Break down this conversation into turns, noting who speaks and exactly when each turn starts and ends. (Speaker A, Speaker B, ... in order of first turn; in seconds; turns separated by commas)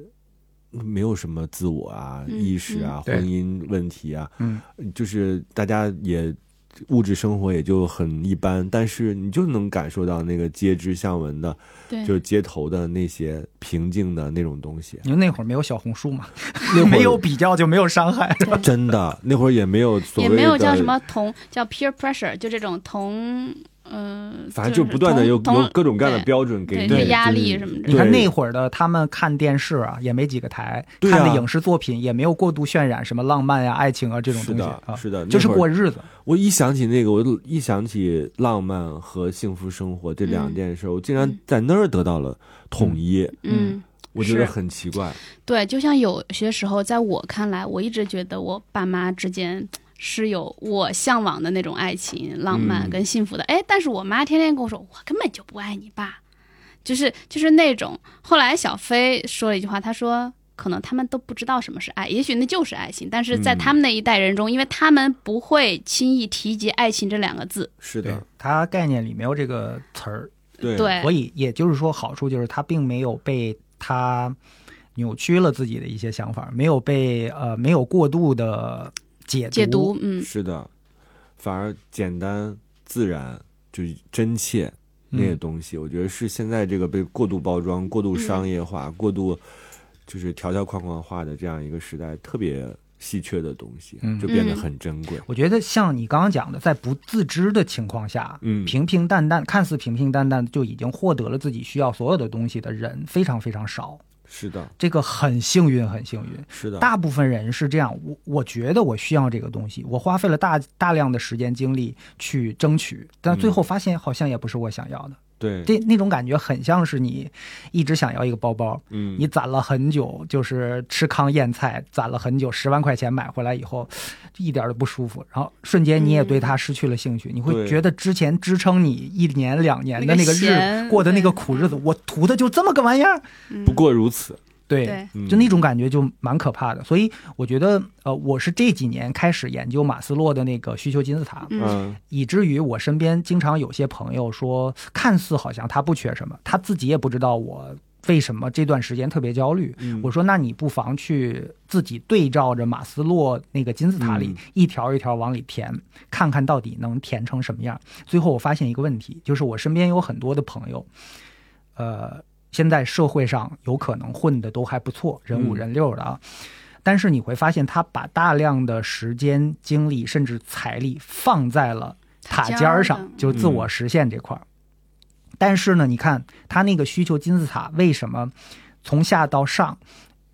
Speaker A: 0.7-15.0, Speaker B: 2.3-2.9, Speaker C: 15.0-18.6, Speaker A: 16.7-17.2, Speaker A: 18.6-20.9, Speaker B: 20.1-28.0, Speaker A: 24.5-28.3, Speaker C: 26.9-27.2, Speaker C: 27.9-36.1, Speaker A: 31.0-31.5, Speaker A: 34.3-35.7, Speaker A: 36.2-43.4, Speaker B: 40.2-40.6, Speaker B: 43.4-44.5, Speaker C: 43.5-43.8, Speaker A: 44.1-45.2, Speaker B: 45.4-56.2, Speaker A: 52.5-53.0, Speaker B: 56.8-67.7, Speaker A: 63.3-63.7, Speaker A: 67.8-68.2, Speaker C: 68.0-74.4, Speaker A: 70.6-71.0, Speaker B: 70.7-71.1, Speaker C: 75.0-79.9, Speaker B: 79.5-80.3, Speaker A: 80.2-80.7, Speaker A: 81.4-89.4, Speaker C: 85.1-85.4, Speaker B: 88.1-88.4, Speaker A: 90.1-95.2, Speaker C: 94.0-94.5, Speaker B: 94.3-94.6, Speaker C: 95.2-104.0, Speaker A: 98.4-98.7, Speaker A: 104.3-104.7, Speaker C: 104.8-133.2, Speaker A: 106.5-106.9, Speaker A: 113.3-113.6, Speaker A: 115.4-115.7, Speaker A: 118.9-119.3, Speaker B: 126.0-126.5, Speaker A: 127.5-127.8, Speaker B: 130.0-131.8, Speaker B: 133.5-133.8, Speaker A: 133.6-134.4, Speaker C: 134.7-160.9, Speaker B: 134.8-135.1, Speaker A: 135.1-135.6, Speaker B: 141.5-141.8, Speaker A: 141.6-142.0, Speaker A: 149.8-150.1, Speaker A: 154.0-154.4, Speaker C: 161.8-166.2, Speaker A: 165.3-165.6, Speaker C: 166.8-174.4, Speaker B: 172.2-173.3, Speaker A: 173.3-173.7, Speaker C: 175.4-178.3, Speaker C: 178.8-179.8